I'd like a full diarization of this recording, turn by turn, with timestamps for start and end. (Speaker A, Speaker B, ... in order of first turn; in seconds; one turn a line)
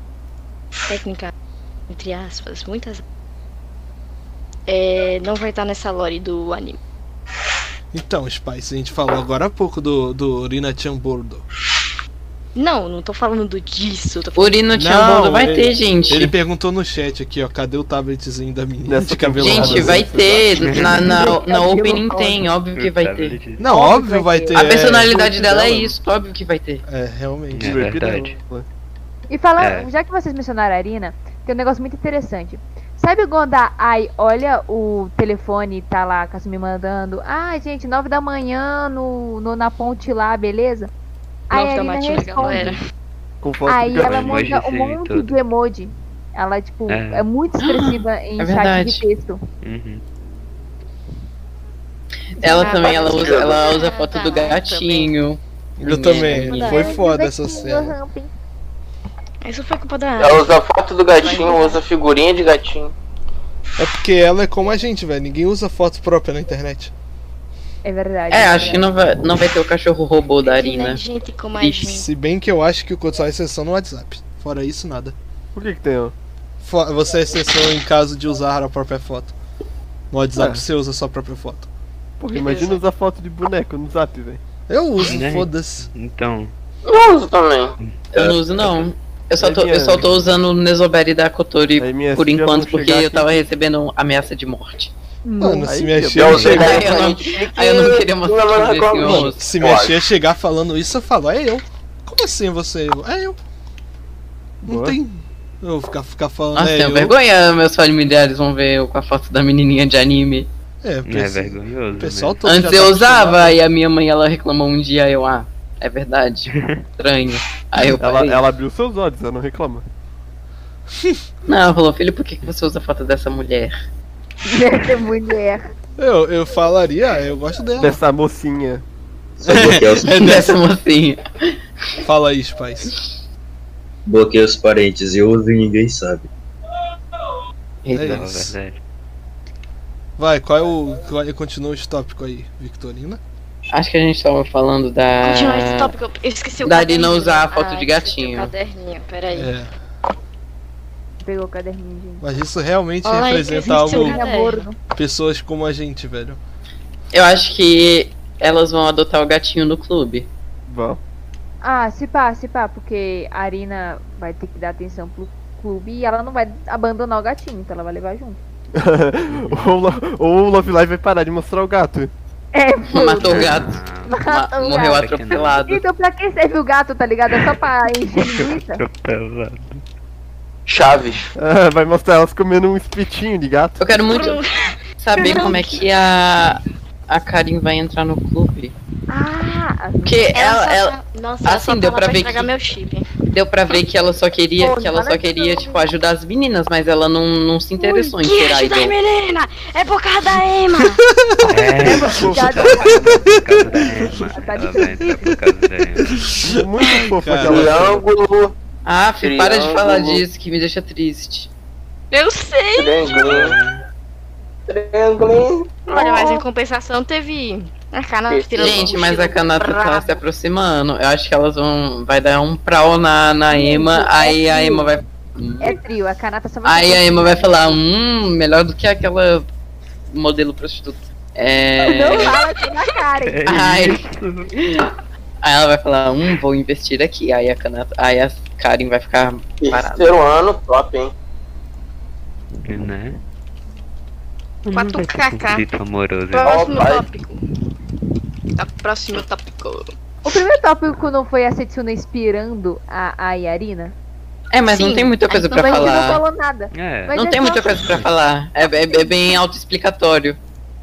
Speaker A: 0.9-1.3
Speaker A: 1.9-3.0
Speaker A: 4.7-6.8
Speaker B: 7.9-11.4
Speaker A: 12.5-14.6
Speaker C: 14.3-16.3
Speaker B: 14.7-20.1
Speaker D: 18.9-20.8
Speaker C: 19.4-23.4
Speaker E: 20.8-22.5
Speaker F: 22.8-23.7
Speaker B: 23.6-25.1
Speaker E: 23.6-24.7
Speaker C: 24.5-26.8
Speaker D: 25.1-25.9
Speaker B: 26.9-27.8
Speaker F: 27.5-28.4
Speaker D: 27.6-28.6
Speaker E: 29.3-40.9
Speaker F: 29.6-29.9
Speaker E: 41.5-42.8
Speaker A: 41.5-42.8
Speaker F: 42.4-42.8
Speaker D: 43.4-44.5
Speaker E: 43.6-49.4
Speaker F: 44.0-45.4
Speaker F: 46.9-47.3
Speaker C: 47.6-49.0
Speaker F: 49.6-50.0
Speaker C: 52.4-56.8
Speaker E: 52.4-52.9
Speaker A: 52.4-55.1
Speaker G: 52.9-53.6
Speaker B: 55.8-57.9
Speaker A: 56.0-57.0
Speaker E: 56.6-58.3
Speaker A: 59.4-60.5
Speaker G: 60.2-62.9
Speaker A: 61.2-61.8
Speaker B: 63.8-66.9
Speaker E: 67.8-68.9
Speaker C: 68.3-71.0
Speaker A: 70.4-72.1
Speaker C: 71.6-71.9
Speaker B: 71.9-75.2
Speaker D: 75.5-76.1
Speaker B: 76.6-79.3
Speaker B: 80.1-81.7
Speaker D: 80.3-80.6
Speaker D: 82.2-84.4
Speaker A: 82.4-82.7
Speaker B: 84.7-85.9
Speaker F: 85.0-86.5
Speaker G: 86.8-88.3
Speaker C: 88.1-94.9
Speaker D: 89.4-90.1
Speaker D: 91.8-93.5
Speaker E: 95.2-95.7
Speaker B: 95.4-96.7
Speaker D: 95.6-97.0
Speaker G: 96.2-99.9
Speaker F: 96.3-96.7
Speaker C: 96.5-99.4
Speaker B: 99.0-103.4
Speaker D: 104.6-105.0
Speaker B: 104.7-107.1
Speaker C: 106.5-110.5
Speaker B: 110.8-113.6
Speaker F: 111.1-112.4
Speaker C: 112.4-118.4
Speaker F: 116.5-116.8
Speaker D: 118.0-119.8
Speaker C: 121.5-123.8
Speaker E: 124.5-125.6
Speaker B: 126.0-128.0
Speaker D: 127.8-128.8
Speaker H: 129.4-130.3
Speaker B: 129.4-130.5
Speaker C: 130.1-131.2
Speaker B: 132.0-132.9
Speaker H: 134.1-136.3
Speaker C: 137.8-138.3
Speaker B: 137.9-138.5
Speaker F: 138.0-138.8
Speaker B: 140.2-143.2
Speaker C: 143.7-145.9
Speaker A: 145.2-149.5
Speaker C: 146.6-148.5
Speaker B: 149.3-149.7
Speaker E: 151.2-152.2
Speaker B: 152.2-154.2
Speaker A: 153.0-154.6
Speaker E: 153.8-154.8
Speaker B: 154.9-156.4
Speaker C: 157.1-160.3
Speaker D: 160.7-161.0
Speaker E: 161.6-168.4
Speaker D: 168.7-172.1
Speaker E: 172.5-173.5
Speaker C: 172.9-175.8
Speaker F: 173.2-174.2
Speaker E: 174.1-175.0
Speaker F: 174.7-175.6
Speaker E: 175.7-178.8
Speaker F: 178.2-179.8
Speaker G: 180.7-181.3
Speaker D: 181.3-183.8
Speaker C: 183.8-184.4
Speaker A: 184.1-184.5
Speaker C: 185.0-188.7
Speaker A: 185.1-185.8
Speaker E: 189.1-190.2
Speaker C: 190.0-192.5
Speaker A: 190.3-193.1
Speaker C: 193.3-198.9
Speaker E: 194.6-195.8
Speaker A: 197.8-201.0
Speaker B: 201.2-201.6
Speaker F: 201.4-206.4
Speaker D: 201.8-203.2
Speaker E: 201.8-203.3
Speaker E: 204.3-205.3
Speaker D: 206.5-208.0
Speaker B: 206.8-207.8
Speaker G: 207.4-208.5
Speaker C: 208.8-211.5
Speaker G: 209.2-210.2
Speaker A: 212.1-213.1
Speaker G: 212.8-213.6
Speaker F: 213.1-213.8
Speaker G: 214.7-215.8
Speaker A: 215.9-220.2
Speaker E: 216.0-216.4
Speaker G: 218.3-219.0
Speaker C: 218.6-225.8
Speaker E: 223.5-224.9
Speaker E: 225.6-227.8
Speaker C: 226.6-229.4
Speaker C: 230.1-232.4
Speaker E: 231.8-233.5
Speaker F: 233.2-234.5
Speaker C: 233.4-234.0
Speaker C: 234.5-240.1
Speaker G: 239.6-241.1
Speaker F: 242.7-243.2
Speaker F: 244.6-246.6
Speaker A: 244.7-245.7
Speaker A: 246.3-247.4
Speaker G: 246.4-247.1
Speaker A: 248.6-249.9
Speaker E: 250.2-253.9
Speaker C: 254.5-256.2
Speaker A: 254.7-256.0
Speaker E: 255.5-257.7
Speaker F: 256.7-257.3
Speaker C: 257.1-260.4